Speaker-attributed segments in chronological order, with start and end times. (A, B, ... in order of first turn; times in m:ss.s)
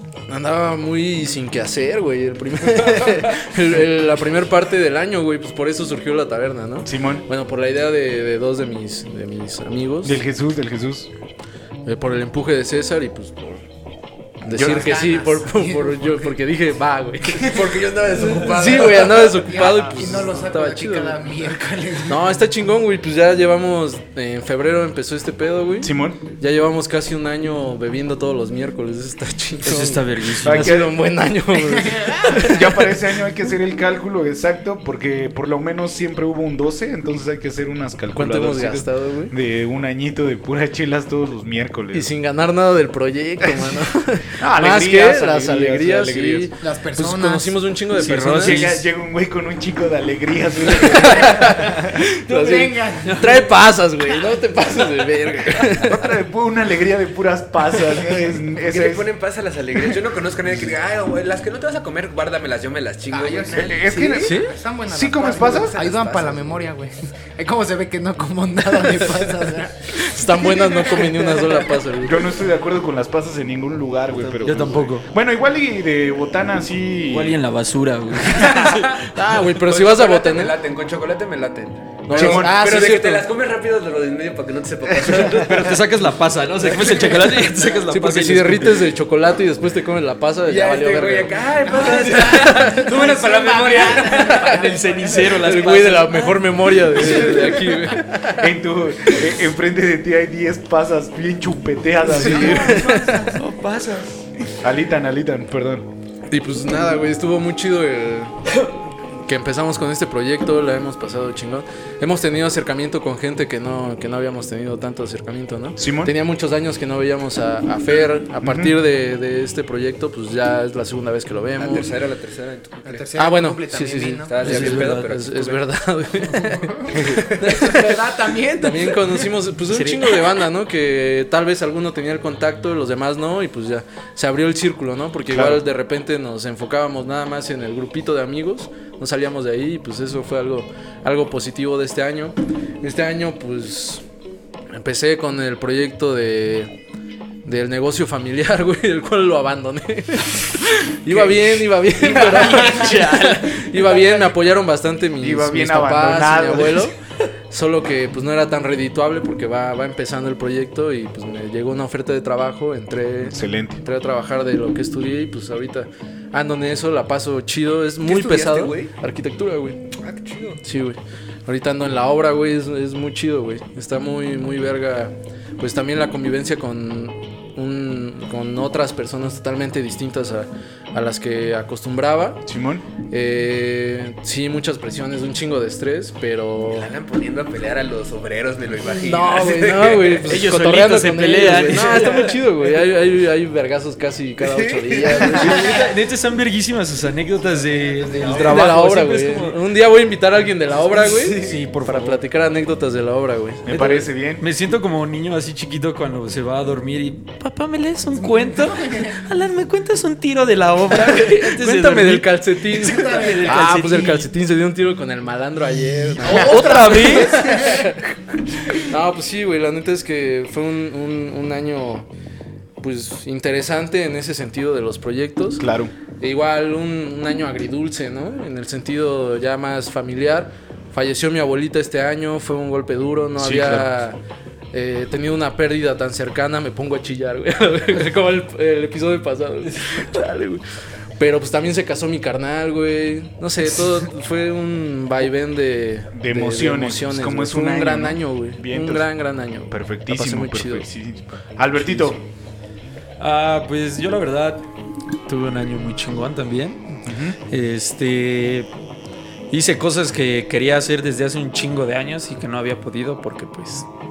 0:00.3-0:10.2 A
0:06.8-0:07.2 B
0:10.0-0:11.1 B
0:11.8-0:13.6 A
0:14.4-0:21.3 A
0:14.4-0:14.8 B
0:14.5-0:16.3 C
0:17.4-0:19.3 D
0:17.4-0:22.4 C
0:19.6-0:19.9 B
0:22.1-0:32.7 A
0:25.8-0:26.2 B
0:29.6-0:30.9 E
0:30.4-0:31.0 B
0:31.5-0:32.6 C
0:32.3-0:42.1 B
0:38.1-0:39.3 A
0:41.9-0:48.7 A
0:43.4-0:43.8 B
0:44.3-0:46.5 B
0:46.6-0:47.6 C
0:48.0-0:48.8 E
0:48.3-0:52.0 B
0:50.7-0:56.0 A
0:52.2-0:53.5 C
0:53.0-0:53.4 E
0:55.8-0:59.1 B
0:58.7-1:04.2 D
1:03.1-1:11.6 C
1:03.6-1:05.8 B
1:04.2-1:04.6 A
1:05.2-1:06.6 D
1:09.9-1:12.3 A
1:12.0-1:17.4 B
1:14.2-1:14.7 D
1:14.4-1:15.1 E
1:17.1-1:19.1 E
1:18.2-1:18.8 B
1:18.6-1:25.8 D
1:19.1-1:20.6 A
1:22.1-1:23.0 A
1:22.1-1:22.7 B
1:22.2-1:23.2 C
1:25.1-1:28.9 E
1:26.6-1:27.8 D
1:27.9-1:31.4 A
1:30.5-1:34.7 D
1:31.6-1:35.5 C
1:31.9-1:32.9 A
1:34.2-1:36.4 E
1:35.3-1:38.5 A
1:37.1-1:37.6 C
1:38.2-1:42.9 B
1:42.0-1:43.3 A
1:42.3-1:43.4 C
1:42.7-1:44.2 E
1:44.6-1:45.9 B
1:46.3-1:48.4 A
1:49.2-2:01.9 A
1:55.8-1:56.1 B
1:58.4-1:58.8 B
2:01.6-2:03.1 D
2:02.8-2:04.5 C
2:03.2-2:24.0 A
2:04.3-2:05.7 D
2:04.4-2:05.1 E
2:06.3-2:09.3 C
2:09.7-2:10.4 E
2:15.3-2:15.6 B
2:24.7-2:26.7 A
2:27.4-2:37.0 A
2:32.3-2:34.3 C
2:32.4-2:33.6 E
2:35.2-2:36.9 B
2:37.5-2:49.8 A
2:43.2-2:43.8 B
2:48.0-2:48.9 D
2:50.0-2:50.6 D
2:50.6-3:02.4 A
3:02.5-3:02.8 B
3:03.1-3:06.9 A
3:06.7-3:10.3 D
3:08.8-3:15.8 A
3:10.2-3:12.4 E
3:14.4-3:15.4 D
3:15.2-3:19.6 E
3:18.2-3:23.8 A
3:21.0-3:21.6 D
3:21.1-3:22.2 E
3:23.6-3:24.4 B
3:23.7-3:34.3 E
3:28.2-3:29.1 C
3:30.9-3:38.0 A
3:32.8-3:33.6 C
3:36.2-3:37.8 E
3:36.2-3:38.0 C
3:38.7-3:42.1 A
3:42.8-3:45.6 A
3:45.6-3:45.9 B
3:46.2-3:54.2 A
3:53.4-3:53.9 B
3:54.7-4:00.6 A
4:01.2-4:10.9 A
4:06.1-4:09.1 B
4:09.7-4:12.2 B
4:13.2-4:14.6 E
4:15.3-4:18.7 E
4:17.0-4:17.4 B
4:19.5-4:23.9 E